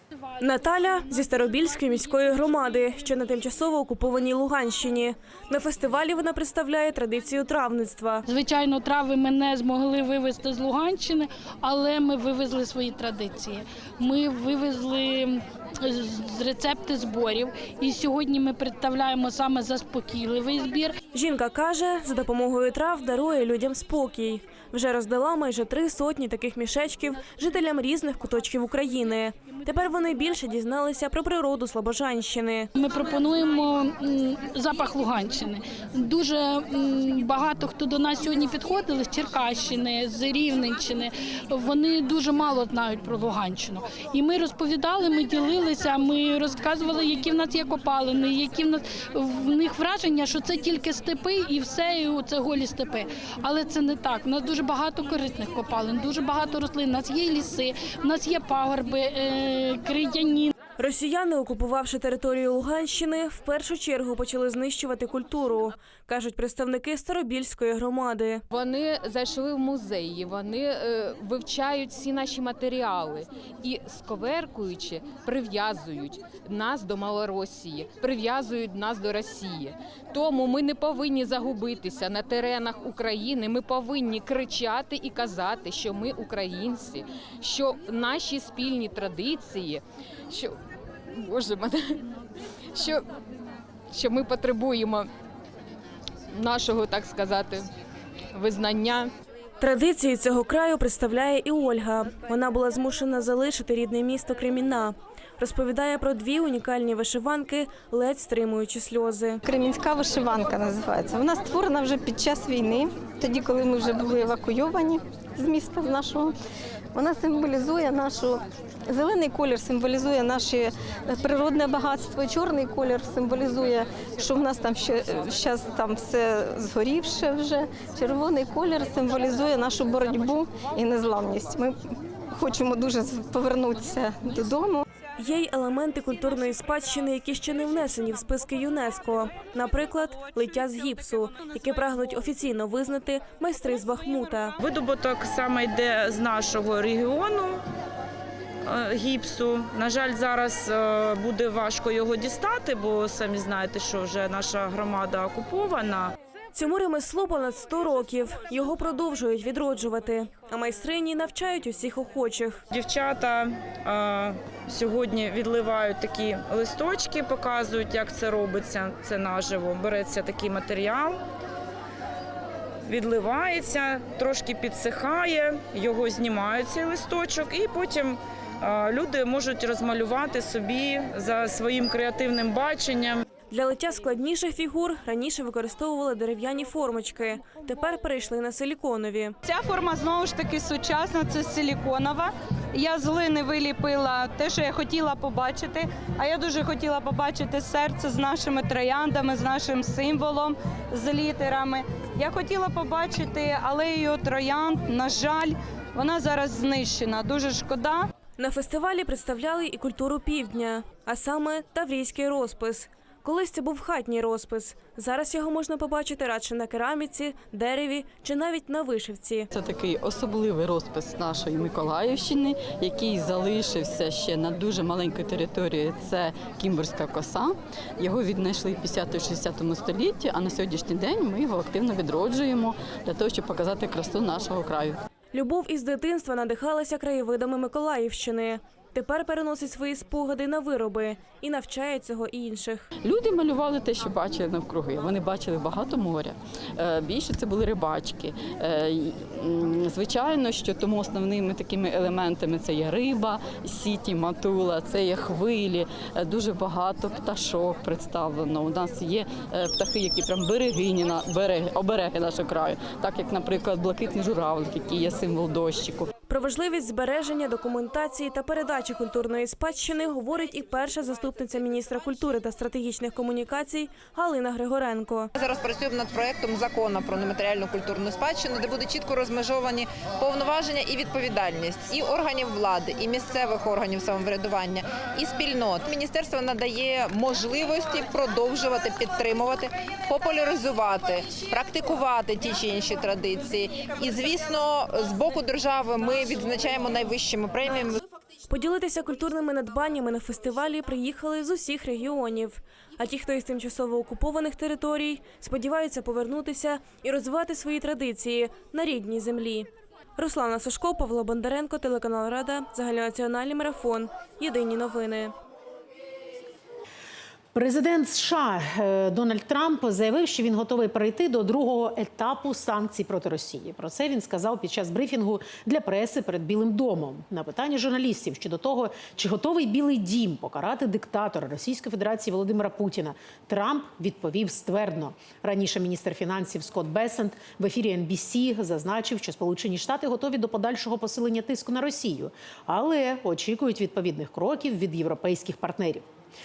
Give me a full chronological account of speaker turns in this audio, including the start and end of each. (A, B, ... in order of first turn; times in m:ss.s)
0:00.4-0:08.2 A
0:00.4-0:02.9 B
0:08.3-0:21.0 B
0:21.1-0:32.7 A
0:32.8-1:00.5 B
1:00.8-1:08.4 A
1:08.5-1:30.6 C
1:31.2-1:32.0 C
1:32.8-1:33.0 C
1:33.9-1:35.1 C
1:36.3-1:37.7 C
1:38.4-1:39.1 C
1:39.6-1:49.4 A
1:51.9-1:53.9 D
1:54.6-1:56.3 D
1:57.0-2:00.7 D
2:01.3-2:11.7 D
2:12.3-2:14.8 D
2:15.2-2:24.6 A
2:24.6-2:27.6 E
2:28.6-2:36.1 E
2:36.6-2:42.6 A
2:42.7-2:51.2 E
2:52.8-3:03.2 E
3:03.5-3:09.4 A
3:09.4-3:28.1 F
3:28.4-3:39.5 A
3:39.5-3:55.0 G
3:55.3-4:02.9 A
4:03.0-4:26.1 G
4:26.3-4:35.3 A
4:35.4-4:58.0 H
4:58.5-5:15.3 A
5:17.6-5:46.1 I